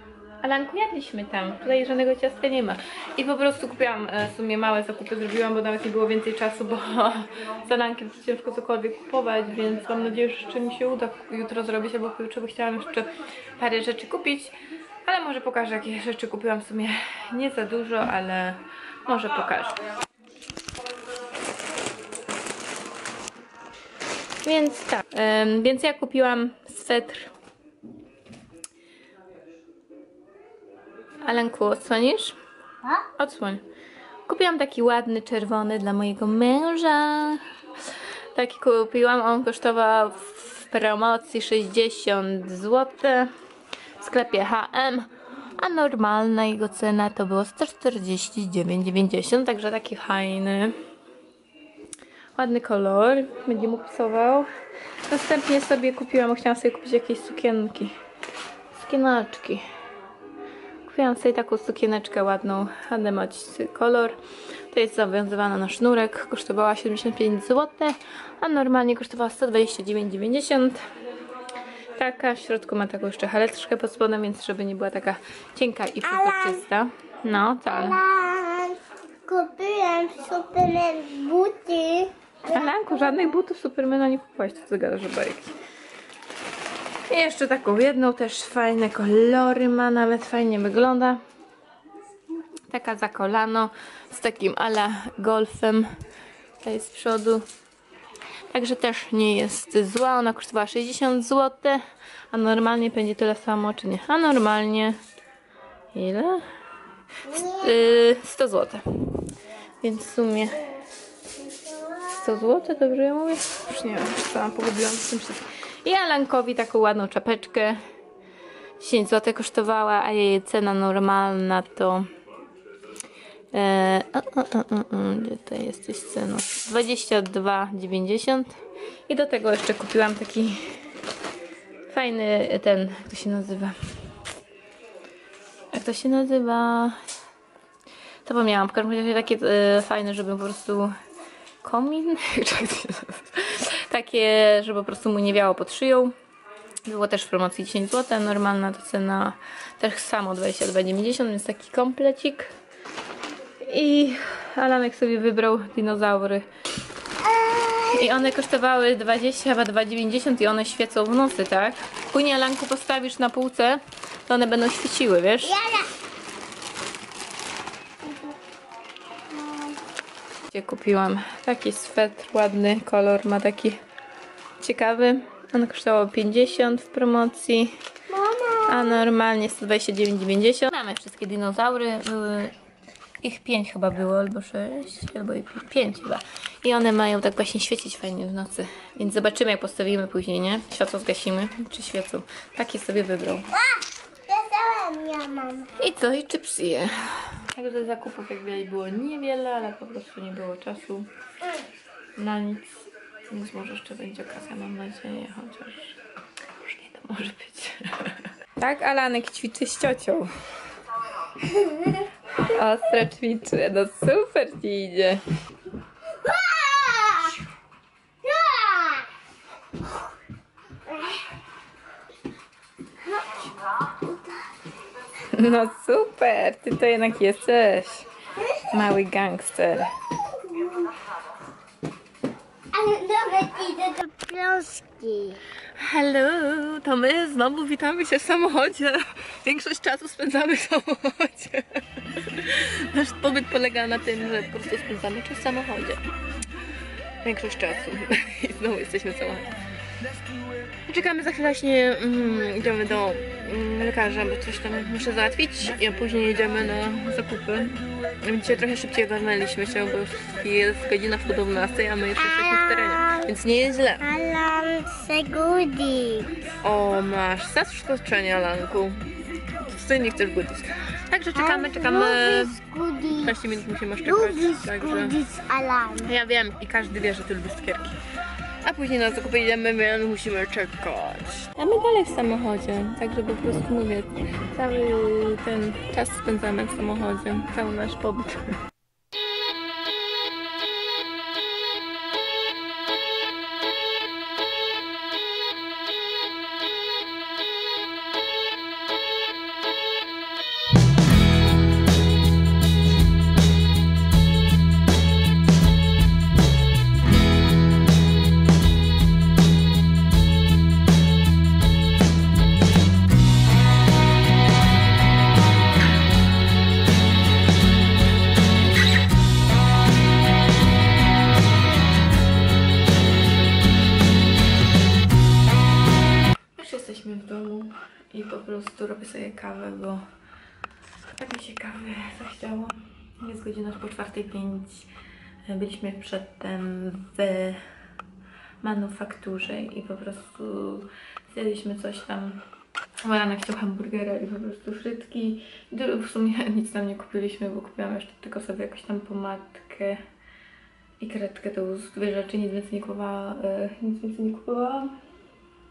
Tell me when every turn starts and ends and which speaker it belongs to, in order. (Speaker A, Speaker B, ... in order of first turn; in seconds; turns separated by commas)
Speaker A: 0.4-19.8, Speaker A: 24.4-27.3, Speaker A: 31.2-32.4, Speaker A: 33.2-33.6, Speaker A: 34.3-37.4, Speaker A: 38.3-43.3, Speaker A: 44.0-50.8, Speaker A: 52.3-54.5, Speaker A: 55.1-57.9, Speaker A: 58.7-59.6, Speaker A: 60.8-64.2, Speaker A: 64.7-70.8, Speaker A: 71.9-78.0, Speaker B: 76.0-76.6, Speaker B: 77.7-82.9, Speaker A: 82.5-85.5, Speaker A: 87.1-91.2, Speaker A: 92.7-95.9, Speaker A: 96.6-97.4, Speaker A: 98.5-105.0, Speaker A: 105.9-106.4, Speaker B: 107.3-107.8, Speaker A: 107.4-108.8, Speaker A: 109.8-110.7, Speaker B: 111.4-112.5, Speaker A: 112.1-117.8, Speaker A: 118.8-122.1, Speaker A: 123.5-130.6, Speaker A: 131.9-133.8, Speaker A: 135.7-137.0, Speaker A: 138.2-140.9, Speaker A: 141.6-146.1, Speaker A: 146.9-152.5, Speaker A: 153.6-156.4, Speaker B: 157.2-158.2, Speaker A: 157.9-165.6, Speaker B: 165.4-165.9, Speaker B: 169.4-169.7, Speaker A: 170.5-173.8, Speaker A: 174.6-177.8, Speaker B: 178.1-179.0, Speaker A: 178.7-182.6, Speaker A: 183.2-193.6, Speaker B: 193.6-195.8, Speaker A: 195.8-201.1, Speaker A: 202.2-206.0, Speaker A: 206.6-210.3, Speaker B: 211.5-211.8, Speaker A: 212.3-215.2, Speaker B: 216.2-217.4, Speaker B: 218.2-219.1, Speaker B: 220.9-221.2, Speaker B: 223.3-224.5, Speaker A: 225.2-228.1, Speaker A: 228.7-229.9, Speaker B: 230.5-230.8, Speaker B: 232.7-235.4, Speaker A: 235.8-246.0, Speaker A: 247.2-249.6, Speaker A: 250.9-264.1, Speaker B: 262.4-263.3, Speaker B: 264.0-266.4, Speaker A: 266.6-272.6, Speaker B: 271.4-273.4, Speaker A: 273.2-275.2, Speaker B: 274.0-276.1, Speaker A: 276.0-278.0, Speaker A: 278.6-288.6, Speaker A: 326.6-330.0, Speaker A: 331.2-334.9, Speaker A: 335.5-337.6, Speaker A: 338.6-342.4, Speaker A: 343.0-350.0, Speaker A: 351.0-354.9